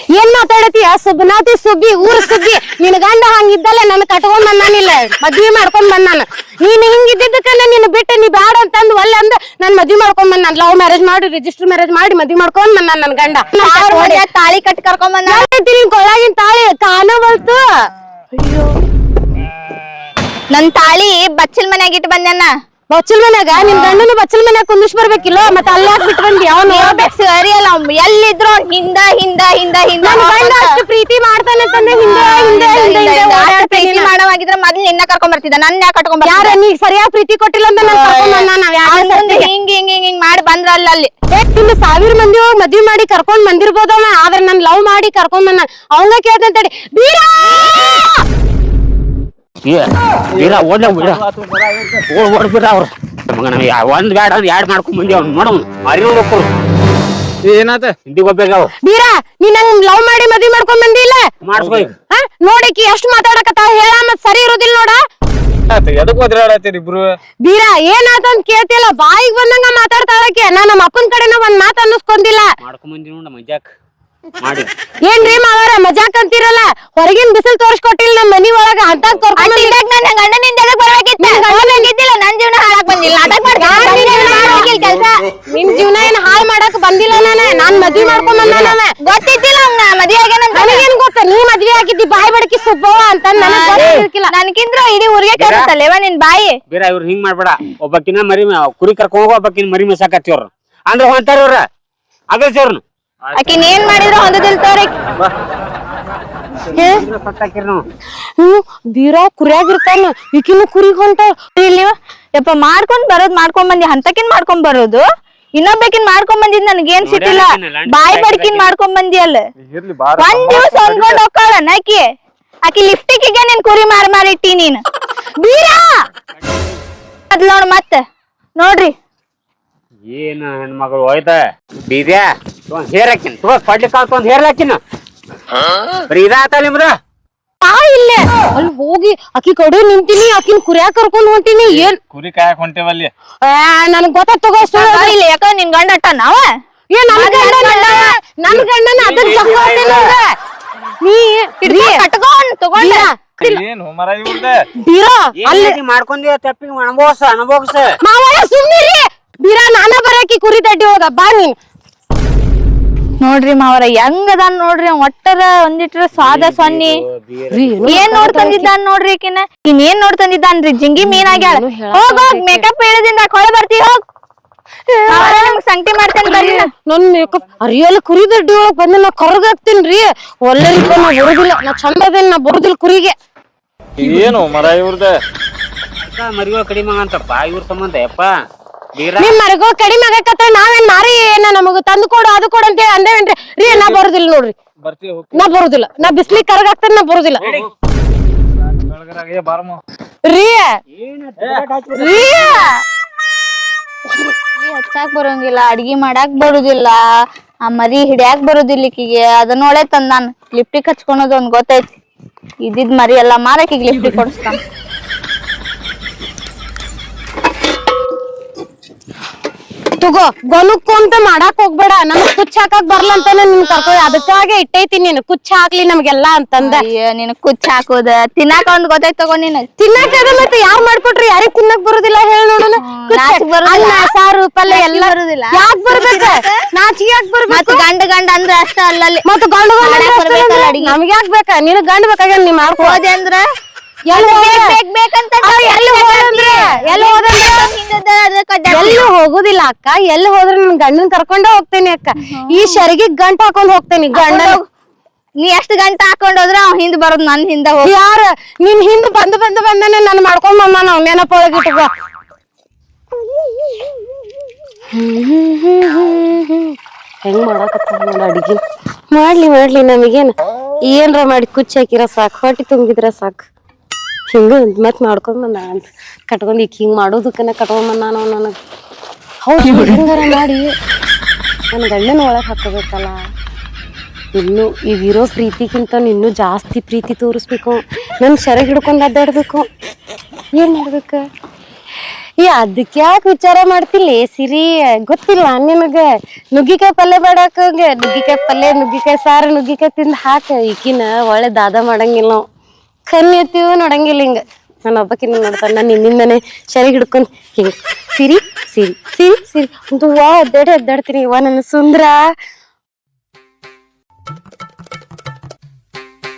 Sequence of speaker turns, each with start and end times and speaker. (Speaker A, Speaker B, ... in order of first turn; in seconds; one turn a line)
Speaker A: 0.1-14.2
Speaker B: 13.6-15.4
Speaker A: 15.3-17.6
Speaker B: 18.4-18.7
Speaker B: 20.5-22.5
Speaker A: 22.9-27.1
Speaker B: 23.6-24.0
Speaker B: 26.7-30.6
Speaker A: 30.0-34.1
Speaker B: 31.9-36.5
Speaker A: 36.2-39.5
Speaker B: 37.8-41.1
Speaker A: 41.3-48.2
Speaker C: 49.6-51.2
Speaker D: 50.4-52.0
Speaker C: 52.1-56.5
Speaker D: 57.4-58.0
Speaker C: 58.1-58.7
Speaker A: 58.8-61.3
Speaker C: 61.5-62.0
Speaker D: 61.5-61.9
Speaker A: 62.1-65.0
Speaker D: 65.7-67.2
Speaker A: 67.4-72.5
Speaker C: 72.6-73.6
Speaker C: 74.4-74.7
Speaker A: 75.1-79.8
Speaker B: 79.4-85.2
Speaker A: 81.2-81.9
Speaker A: 83.6-84.7
Speaker A: 85.5-88.9
Speaker C: 88.4-88.8
Speaker B: 89.0-90.8
Speaker A: 90.5-94.3
Speaker B: 93.4-96.6
Speaker C: 95.4-95.7
Speaker C: 96.7-101.6
Speaker C: 102.3-102.8
Speaker B: 103.3-104.9
Speaker A: 106.7-107.0
Speaker C: 106.8-107.8
Speaker A: 108.4-111.3
Speaker B: 111.6-115.0
Speaker B: 115.6-119.4
Speaker C: 117.0-118.7
Speaker D: 119.6-121.2
Speaker B: 120.2-122.0
Speaker B: 122.7-124.8
Speaker A: 125.4-126.0
Speaker C: 126.4-126.7
Speaker B: 127.3-128.0
Speaker B: 128.6-128.9
Speaker C: 130.1-134.8
Speaker C: 136.1-136.9
Speaker A: 137.6-142.0
Speaker D: 141.6-143.1
Speaker A: 143.4-145.1
Speaker B: 144.8-146.5
Speaker A: 146.9-150.3
Speaker B: 147.1-148.1
Speaker C: 149.0-150.1
Speaker A: 151.0-152.0
Speaker B: 151.6-153.1
Speaker A: 152.8-153.6
Speaker D: 153.4-154.7
Speaker A: 154.8-155.8
Speaker C: 155.4-157.9
Speaker A: 158.0-161.5
Speaker B: 163.2-167.0
Speaker C: 166.2-168.1
Speaker A: 167.5-168.7
Speaker B: 167.9-174.0
Speaker A: 171.0-172.6
Speaker A: 174.9-175.6
Speaker B: 175.1-176.6
Speaker A: 176.2-183.1
Speaker D: 184.0-185.2
Speaker C: 186.0-188.3
Speaker C: 188.9-189.4
Speaker A: 189.2-194.5
Speaker D: 193.7-194.0
Speaker D: 194.8-195.5
Speaker A: 195.3-197.4
Speaker D: 197.4-197.7
Speaker D: 198.8-199.8
Speaker A: 200.2-200.7
Speaker C: 200.9-202.5
Speaker B: 201.9-202.7
Speaker B: 204.6-207.0
Speaker B: 207.6-211.9
Speaker B: 212.6-214.6
Speaker A: 220.0-226.8
Speaker B: 226.6-229.6
Speaker A: 229.8-237.8
Speaker B: 232.8-234.1
Speaker B: 234.7-236.6
Speaker B: 237.5-239.2
Speaker A: 239.2-243.0
Speaker B: 239.8-240.9
Speaker B: 242.8-243.4
Speaker A: 244.1-244.7
Speaker B: 244.1-249.0
Speaker A: 245.4-247.7
Speaker A: 248.7-254.6
Speaker B: 252.2-252.8
Speaker B: 254.1-254.6
Speaker B: 255.4-257.9
Speaker A: 257.8-261.9
Speaker A: 264.9-266.7
Speaker A: 267.2-268.6
Speaker A: 269.1-270.3
Speaker A: 270.9-273.5
Speaker A: 274.3-278.6
Speaker A: 279.4-280.7
Speaker A: 281.7-283.2
Speaker A: 284.3-289.6
Speaker A: 290.6-291.2
Speaker A: 292.4-302.4
Speaker A: 303.1-312.2